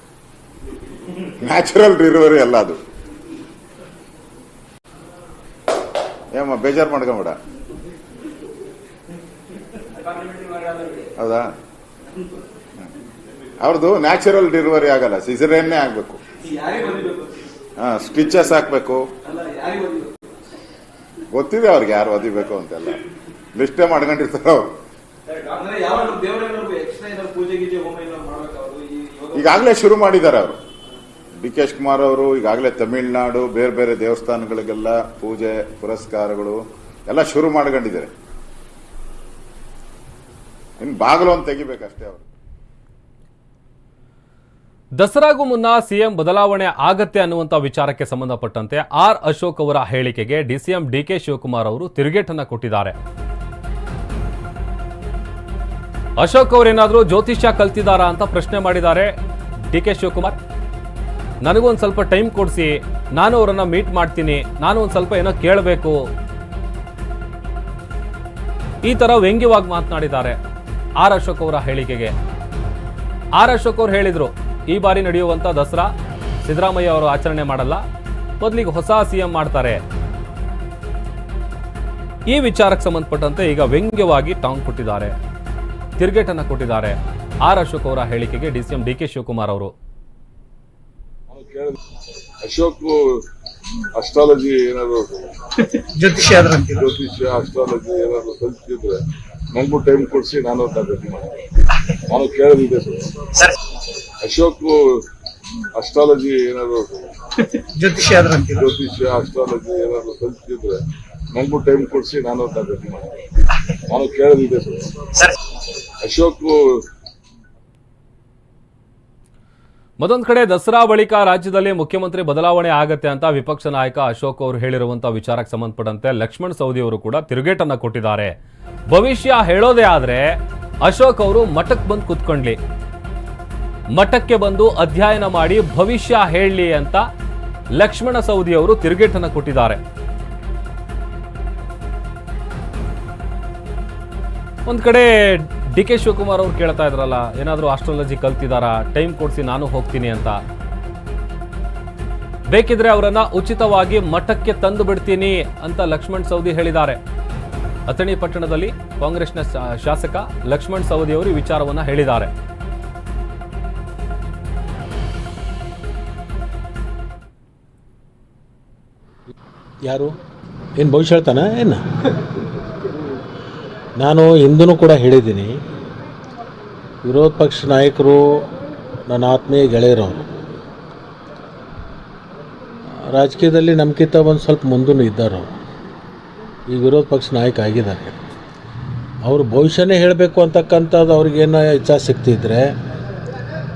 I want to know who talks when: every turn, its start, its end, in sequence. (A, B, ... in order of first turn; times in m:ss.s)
0:01.4-0:02.8 A
0:06.3-0:07.4 A
0:11.2-0:11.5 A
0:13.6-0:16.2 A
0:17.8-0:19.1 A
0:21.3-0:24.7 A
0:25.6-0:28.6 B
0:29.3-0:30.6 A
0:31.4-0:38.1 A
0:40.8-0:42.3 A
0:45.0-0:53.0 C
0:56.2-0:59.1 C
0:59.7-1:00.4 C
1:01.4-1:06.0 C
1:08.8-1:10.4 C
1:11.0-1:12.1 C
1:13.4-1:15.9 C
1:16.4-1:17.8 C
1:18.4-1:19.8 C
1:22.3-1:25.2 C
1:26.0-1:29.7 C
1:31.3-1:31.8 D
1:32.4-1:33.2 D
1:34.0-1:35.4 D
1:35.9-1:36.9 E
1:36.7-1:39.0 D
1:39.5-1:41.3 D
1:42.1-1:43.1 D
1:44.2-1:45.0 D
1:45.8-1:47.2 D
1:47.7-1:48.7 E
1:48.5-1:50.8 D
1:51.3-1:53.1 D
1:53.9-1:54.9 D
1:56.0-1:56.8 D
2:00.0-2:08.4 C
2:08.9-2:12.6 C
2:13.9-2:17.0 C
2:17.7-2:19.8 C
2:24.7-2:30.4 C
2:32.5-2:37.0 C
2:37.9-2:42.3 C
2:49.8-2:50.2 F
2:50.8-2:52.1 F
2:54.0-2:55.6 F
2:57.0-2:58.4 F
2:59.1-3:00.3 F
3:03.0-3:05.5 F
3:06.7-3:08.2 F
3:09.2-3:12.7 F